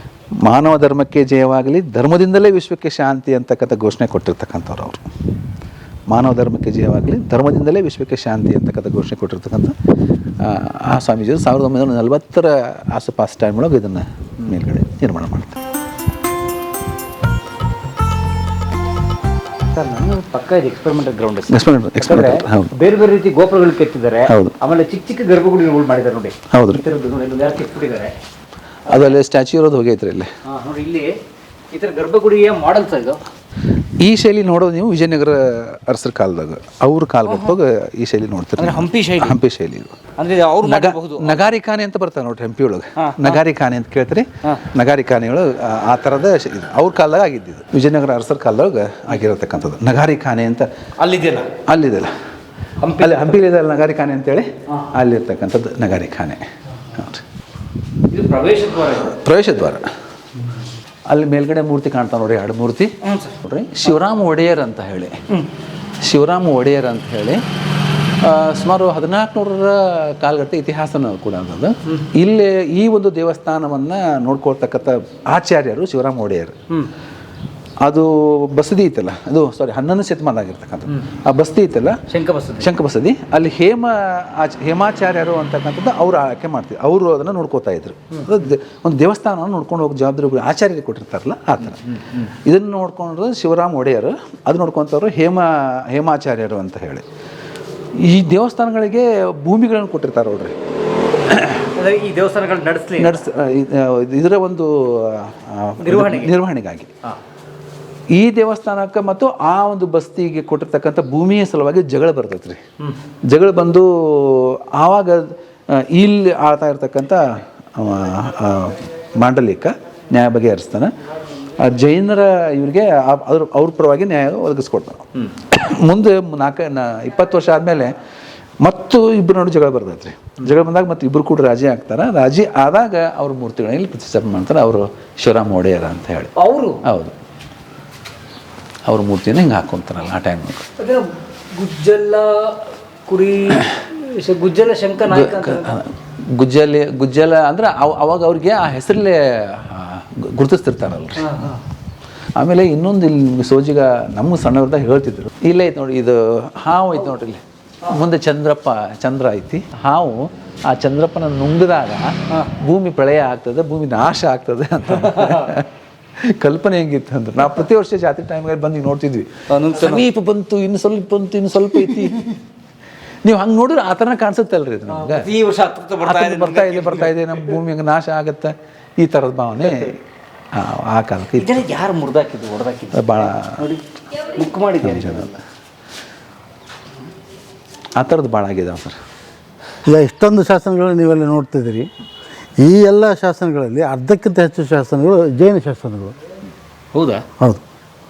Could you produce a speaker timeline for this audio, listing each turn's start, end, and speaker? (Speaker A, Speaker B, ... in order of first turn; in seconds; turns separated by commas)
Speaker A: 0.4-5.0, Speaker A: 6.1-9.7, Speaker A: 10.4-15.6, Speaker B: 19.7-28.1, Speaker A: 21.5-22.7, Speaker A: 24.3-24.6, Speaker A: 26.5-26.8, Speaker A: 28.9-30.3, Speaker B: 30.4-31.1, Speaker B: 31.7-33.2, Speaker A: 34.0-40.0, Speaker B: 38.6-39.4, Speaker B: 40.2-41.5, Speaker A: 40.6-50.7, Speaker B: 43.0-43.4, Speaker B: 51.0-51.5, Speaker A: 51.6-52.1, Speaker B: 52.8-53.4, Speaker A: 53.0-57.2, Speaker B: 58.1-59.1, Speaker A: 59.1-59.9, Speaker A: 61.1-65.2, Speaker B: 63.0-63.3, Speaker A: 66.0-67.4, Speaker A: 68.2-76.5, Speaker A: 77.8-82.0, Speaker B: 82.1-82.7, Speaker A: 82.6-91.8, Speaker B: 91.7-92.3, Speaker A: 92.3-97.0, Speaker A: 98.0-100.5, Speaker A: 101.2-101.7, Speaker B: 101.8-103.2, Speaker A: 103.0-106.9, Speaker B: 105.8-106.3, Speaker A: 108.1-112.6, Speaker A: 113.3-121.0, Speaker A: 121.6-127.9, Speaker A: 128.6-137.1, Speaker B: 136.4-136.8, Speaker A: 138.9-140.6, Speaker B: 140.8-145.8, Speaker A: 145.1-151.4, Speaker B: 151.2-151.6, Speaker A: 152.3-172.3, Speaker B: 165.0-165.5, Speaker B: 169.5-170.0, Speaker A: 173.2-175.3, Speaker B: 174.9-177.1, Speaker A: 176.0-180.0, Speaker A: 180.5-181.6, Speaker B: 181.4-185.4, Speaker A: 182.9-183.6, Speaker A: 184.8-185.3, Speaker A: 188.0-189.0, Speaker C: 189.8-191.9, Speaker C: 192.6-196.1, Speaker B: 196.9-197.2